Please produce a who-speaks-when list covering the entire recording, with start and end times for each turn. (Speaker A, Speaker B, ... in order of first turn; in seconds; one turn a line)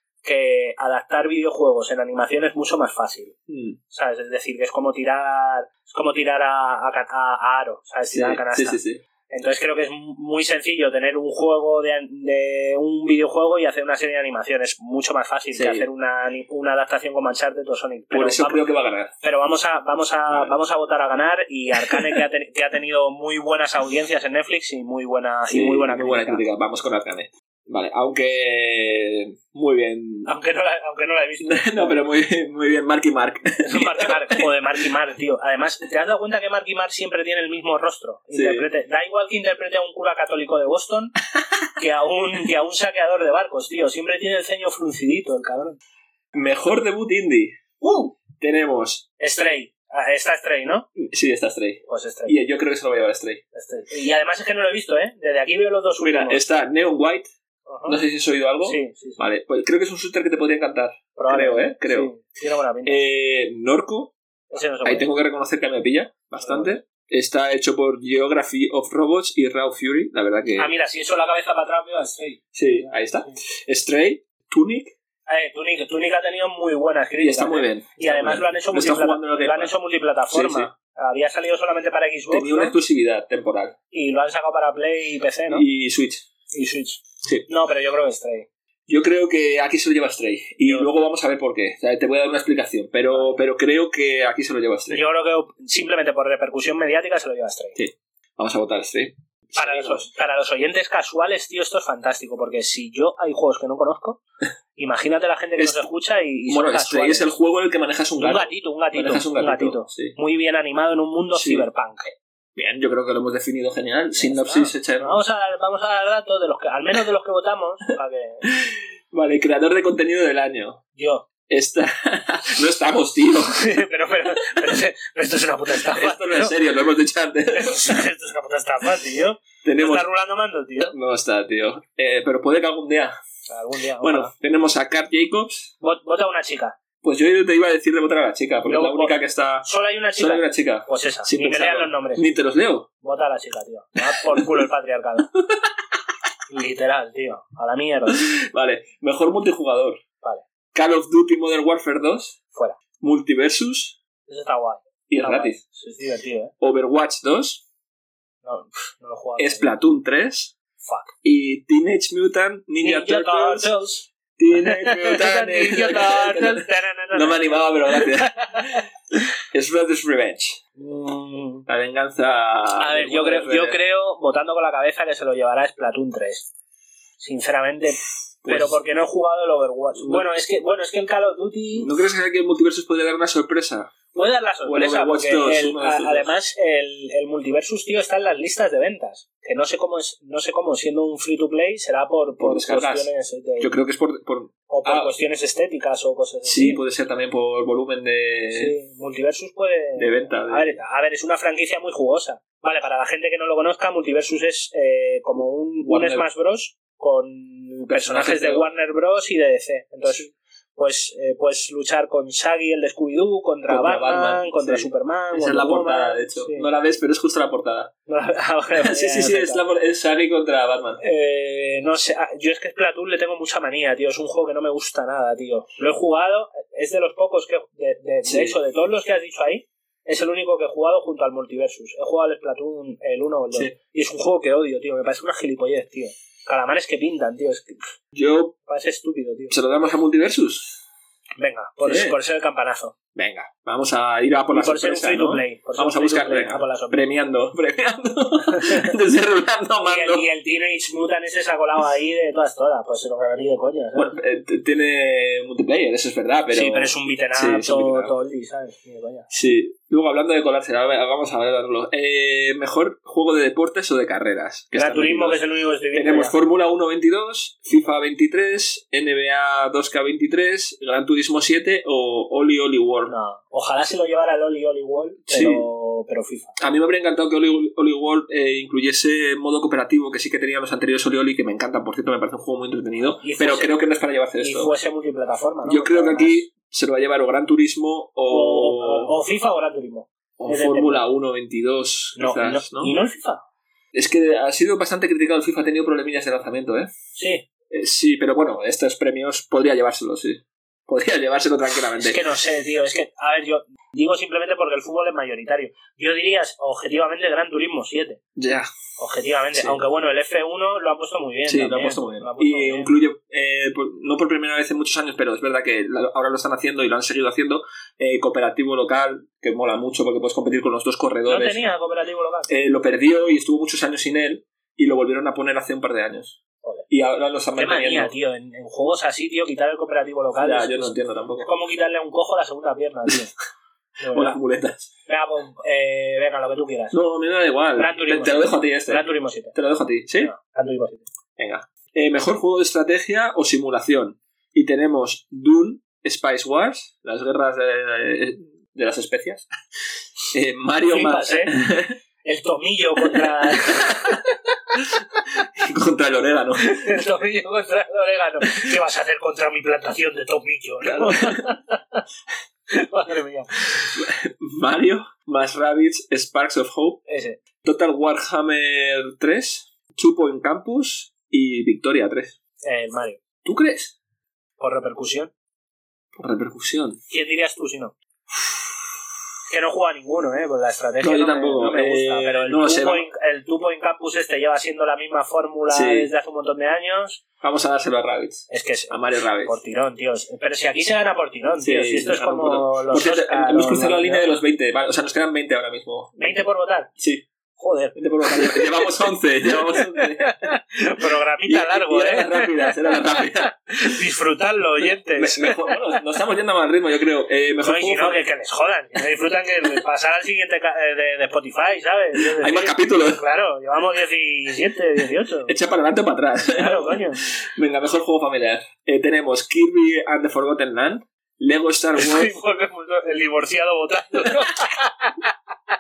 Speaker A: 0.2-3.3
Speaker B: 3.5-3.8
Speaker A: 3.9-18.6
Speaker B: 8.1-9.0
Speaker B: 15.6-15.9
Speaker B: 18.1-19.1
Speaker A: 19.2-26.4
Speaker B: 21.9-22.2
Speaker B: 25.5-30.3
Speaker A: 30.2-32.0
Speaker B: 31.4-34.5
Speaker A: 33.6-41.1
Speaker B: 38.3-38.7
Speaker A: 41.8-45.8
Speaker B: 46.3-47.6
Speaker A: 47.8-48.1
Speaker B: 48.4-49.1
Speaker A: 49.2-50.9
Speaker B: 51.0-53.4
Speaker A: 51.9-52.3
Speaker A: 53.5-56.4
Speaker B: 56.0-57.3
Speaker A: 57.7-58.0
Speaker B: 57.9-62.1
Speaker A: 58.6-59.2
Speaker A: 61.1-63.0
Speaker B: 62.9-64.1
Speaker A: 64.5-65.1
Speaker B: 64.8-70.7
Speaker A: 66.4-66.8
Speaker A: 70.6-73.4
Speaker B: 72.5-75.0
Speaker A: 75.3-82.8
Speaker B: 77.2-79.7
Speaker B: 80.3-80.7
Speaker B: 82.3-83.8
Speaker A: 83.9-85.6
Speaker B: 85.5-86.2
Speaker A: 86.5-88.5
Speaker B: 88.9-95.0
Speaker A: 93.1-93.4
Speaker A: 94.9-97.8
Speaker B: 97.8-100.1
Speaker A: 99.5-104.2
Speaker A: 104.8-107.3
Speaker B: 105.6-105.8
Speaker B: 106.5-110.2
Speaker A: 108.2-112.1
Speaker B: 111.3-111.7
Speaker B: 112.5-115.2
Speaker A: 114.1-118.4
Speaker B: 118.4-120.8
Speaker A: 121.0-121.3
Speaker B: 121.5-123.7
Speaker A: 123.5-126.5
Speaker B: 125.7-128.0
Speaker A: 127.5-130.9
Speaker B: 129.6-130.1
Speaker B: 130.8-133.2
Speaker A: 133.5-134.3
Speaker B: 134.0-135.7
Speaker A: 135.8-136.8
Speaker B: 137.0-139.7
Speaker A: 138.6-142.2
Speaker B: 140.2-142.9
Speaker A: 143.0-145.3
Speaker B: 144.2-144.6
Speaker A: 146.5-148.2
Speaker B: 148.1-150.0
Speaker B: 150.7-152.4
Speaker B: 153.0-154.0
Speaker A: 154.2-156.5
Speaker B: 155.1-155.6
Speaker B: 156.6-157.6
Speaker A: 158.4-159.7
Speaker B: 159.4-160.6
Speaker A: 160.8-161.1
Speaker B: 161.2-163.7
Speaker A: 162.8-168.8
Speaker B: 164.4-168.9
Speaker B: 169.5-170.6
Speaker A: 170.8-171.7
Speaker B: 171.7-173.8
Speaker A: 172.8-176.5
Speaker A: 177.2-181.9
Speaker B: 178.4-178.8
Speaker B: 181.8-183.9
Speaker A: 184.1-193.7
Speaker B: 184.7-186.3
Speaker B: 192.4-195.1
Speaker A: 194.7-196.8
Speaker B: 196.4-198.7
Speaker A: 198.5-216.7
Speaker B: 200.0-200.8
Speaker B: 205.8-206.2
Speaker B: 207.9-208.7
Speaker B: 213.7-217.9
Speaker A: 218.1-219.6
Speaker B: 218.8-221.0
Speaker A: 221.0-237.8
Speaker B: 228.2-228.6
Speaker B: 238.1-238.6
Speaker A: 238.7-239.6
Speaker B: 239.5-240.8
Speaker A: 241.4-242.9
Speaker B: 241.8-242.2
Speaker B: 243.1-250.2
Speaker A: 244.5-247.0
Speaker A: 248.5-248.9
Speaker A: 249.8-254.1
Speaker B: 253.9-258.1
Speaker A: 256.5-259.3
Speaker B: 259.3-265.4
Speaker A: 264.8-266.4
Speaker B: 265.9-273.1
Speaker A: 273.1-276.6
Speaker B: 275.3-275.6
Speaker B: 276.6-284.7
Speaker A: 283.2-283.7
Speaker A: 284.4-286.4
Speaker B: 285.6-289.1
Speaker A: 288.3-291.0
Speaker B: 290.4-292.9
Speaker A: 292.1-293.4
Speaker B: 293.9-296.9
Speaker A: 297.1-297.4
Speaker B: 297.7-302.2
Speaker A: 302.0-308.2
Speaker B: 308.4-308.7
Speaker A: 309.0-312.9
Speaker B: 309.6-309.8
Speaker B: 311.5-321.7
Speaker A: 321.3-322.5
Speaker B: 322.5-328.1
Speaker A: 327.6-333.3
Speaker B: 330.4-331.5
Speaker A: 334.0-334.4
Speaker B: 334.1-334.9
Speaker A: 335.1-336.9
Speaker B: 336.9-340.3
Speaker A: 337.8-339.6
Speaker A: 340.2-341.1
Speaker B: 341.4-349.5
Speaker B: 350.3-352.0
Speaker A: 350.9-351.5
Speaker A: 352.2-354.2
Speaker B: 353.1-354.2
Speaker B: 354.7-356.9
Speaker A: 356.6-362.0
Speaker B: 360.8-361.5
Speaker A: 362.7-363.7
Speaker B: 363.9-367.0
Speaker A: 367.1-367.4
Speaker B: 367.6-372.4
Speaker A: 372.6-373.2
Speaker B: 373.4-373.9
Speaker A: 374.6-375.3
Speaker B: 376.1-377.0
Speaker A: 377.1-377.9
Speaker A: 379.5-387.2
Speaker B: 381.0-383.1
Speaker B: 385.7-386.1
Speaker B: 387.4-389.6
Speaker A: 388.5-394.4
Speaker B: 391.6-396.4
Speaker A: 396.2-396.9
Speaker B: 397.0-397.3
Speaker A: 397.6-405.8
Speaker B: 397.9-400.5
Speaker B: 401.4-404.0
Speaker B: 405.1-408.2
Speaker A: 407.6-415.5
Speaker B: 412.2-413.2
Speaker B: 415.4-422.4
Speaker A: 416.5-417.2
Speaker A: 422.0-425.3